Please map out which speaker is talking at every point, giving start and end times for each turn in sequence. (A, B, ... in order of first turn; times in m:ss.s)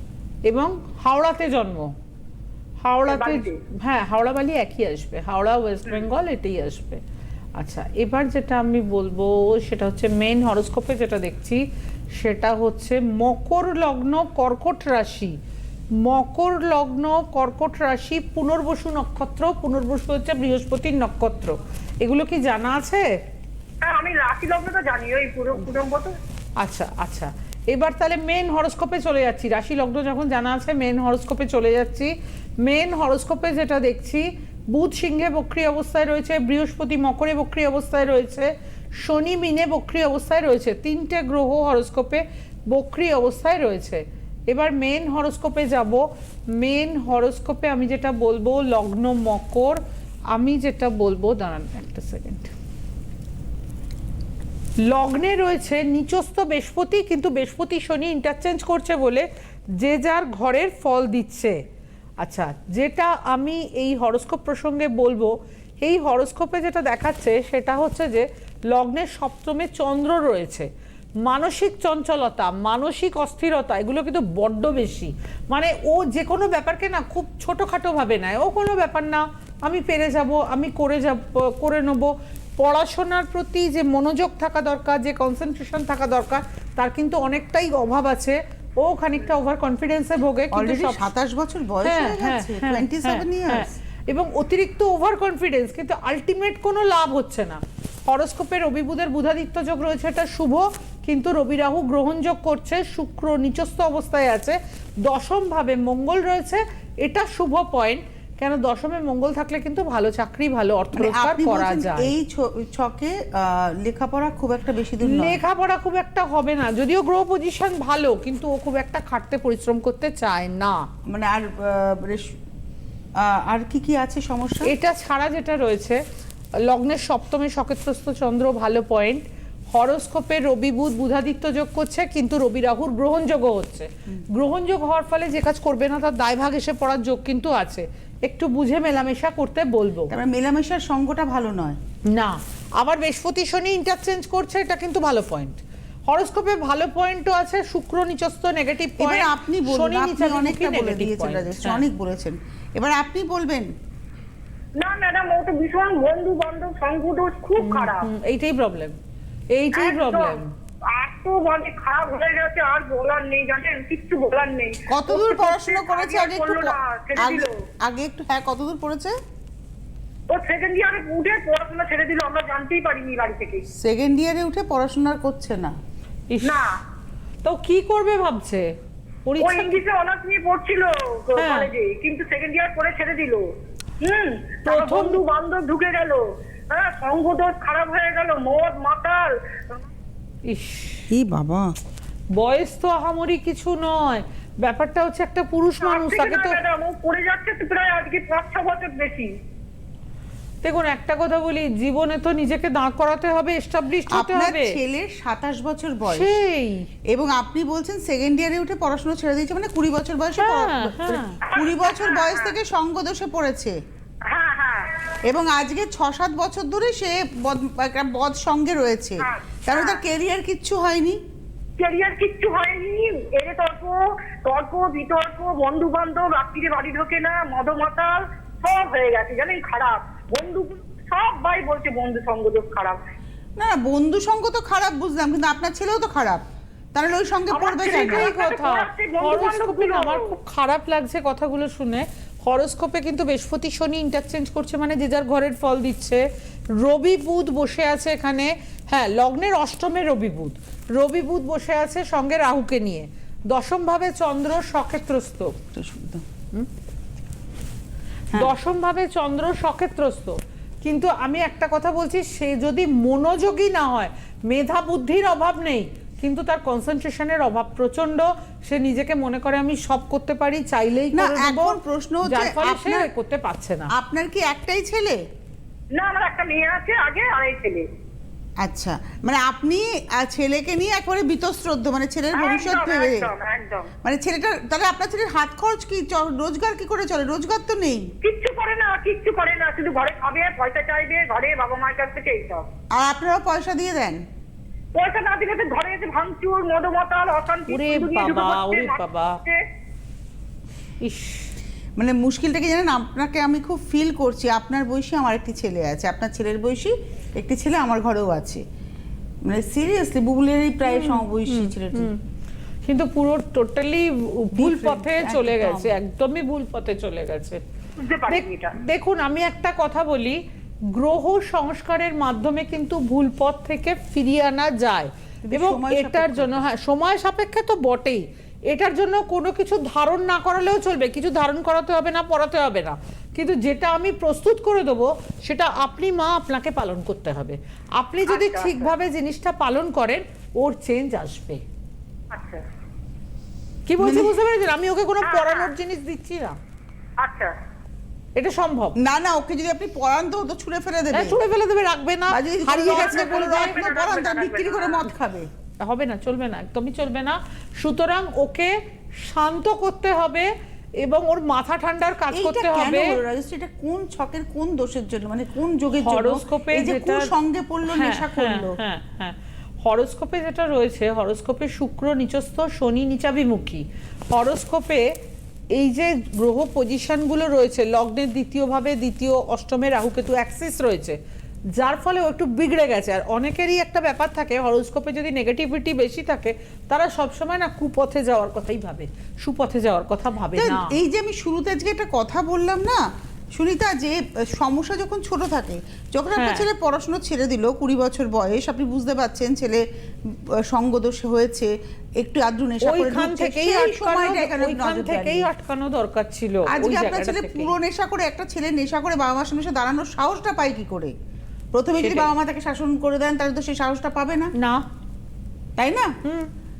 0:00.4-0:01.9 A
0:02.8-0:07.0 A
0:03.1-0:03.6 B
0:07.6-0:11.6 A
0:12.2-0:15.4 A
0:16.0-0:23.1 A
0:23.8-0:26.1 B
0:26.6-0:49.8 A
0:50.3-0:52.5 A
0:54.8-0:59.2 A
0:59.8-1:01.6 A
1:02.2-1:10.7 A
1:11.2-1:31.0 A
1:30.5-1:33.7 C
1:31.8-1:52.1 A
1:50.9-1:55.4 C
1:55.0-2:00.9 A
2:01.1-2:02.3 C
2:03.2-2:04.7 C
2:04.6-2:06.0 A
2:06.6-2:20.1 A
2:20.1-2:21.8 C
2:22.1-2:31.8 A
2:29.0-2:33.7 C
2:34.8-2:38.1 B
2:37.6-2:39.0 A
2:39.5-2:40.5 A
2:39.7-2:40.4 B
2:40.9-2:47.5 B
2:44.9-2:49.1 C
2:50.3-2:53.6 B
2:53.8-2:55.8 C
2:56.3-2:56.6 A
2:56.4-2:56.7 B
2:57.4-2:58.7 A
2:59.2-2:59.8 A
2:59.4-3:03.4 B
3:01.4-3:01.7 A
3:04.0-3:09.8 B
3:04.7-3:05.2 A
3:10.5-3:11.1 A
3:11.1-3:11.7 C
3:12.4-3:16.6 A
3:15.8-3:19.3 B
3:20.6-3:24.8 A
3:24.1-3:26.3 C
3:26.0-3:26.9 A
3:27.1-3:33.8 C
3:30.4-3:31.4 A
3:31.5-3:32.5 B
3:34.3-3:35.0 B
3:35.2-3:41.2 C
3:39.2-3:40.0 B
3:41.8-3:53.0 B
3:53.6-3:56.4 C
3:56.9-3:58.3 C
3:57.5-4:00.3 B
3:57.8-4:15.6 A
4:15.7-4:16.2 C
4:18.3-4:33.9 A
4:31.1-4:33.1 C
4:33.9-4:35.2 C
4:35.9-4:37.8 B
4:38.6-4:43.3 C
4:42.3-4:43.9 B
4:44.0-4:48.1 C
4:48.2-4:52.6 B
4:52.9-4:54.2 C
4:54.9-4:59.6 B
4:57.7-4:59.4 A
5:01.0-5:01.5 A
5:02.0-5:08.6 C
5:09.4-5:12.1 C
5:10.8-5:12.2 A
5:12.8-5:17.6 A
5:14.6-5:16.0 C
5:18.0-5:18.7 B
5:18.3-5:20.4 A
5:20.9-5:41.6 A
5:25.4-5:26.6 C
5:38.3-5:38.9 B
5:42.3-5:42.6 B
5:43.9-5:46.6 A
5:44.0-5:44.3 C
5:45.2-5:45.7 B
5:47.2-5:47.5 B
5:48.4-5:49.0 A
5:49.0-5:51.4 C
5:51.1-5:53.8 A
5:52.3-5:55.5 C
5:52.8-5:55.1 B
5:55.8-6:03.2 A
6:02.3-6:08.8 C
6:06.0-6:07.3 A
6:07.9-6:15.1 A
6:15.7-6:21.2 A
6:21.7-6:31.0 A
6:30.6-6:45.5 C
6:36.4-6:36.7 A
6:42.8-6:47.7 A
6:46.7-6:51.1 C
6:51.7-6:54.5 C
6:52.0-6:52.3 A
6:54.6-6:54.8 A
6:55.8-6:56.2 C
6:56.2-6:56.5 A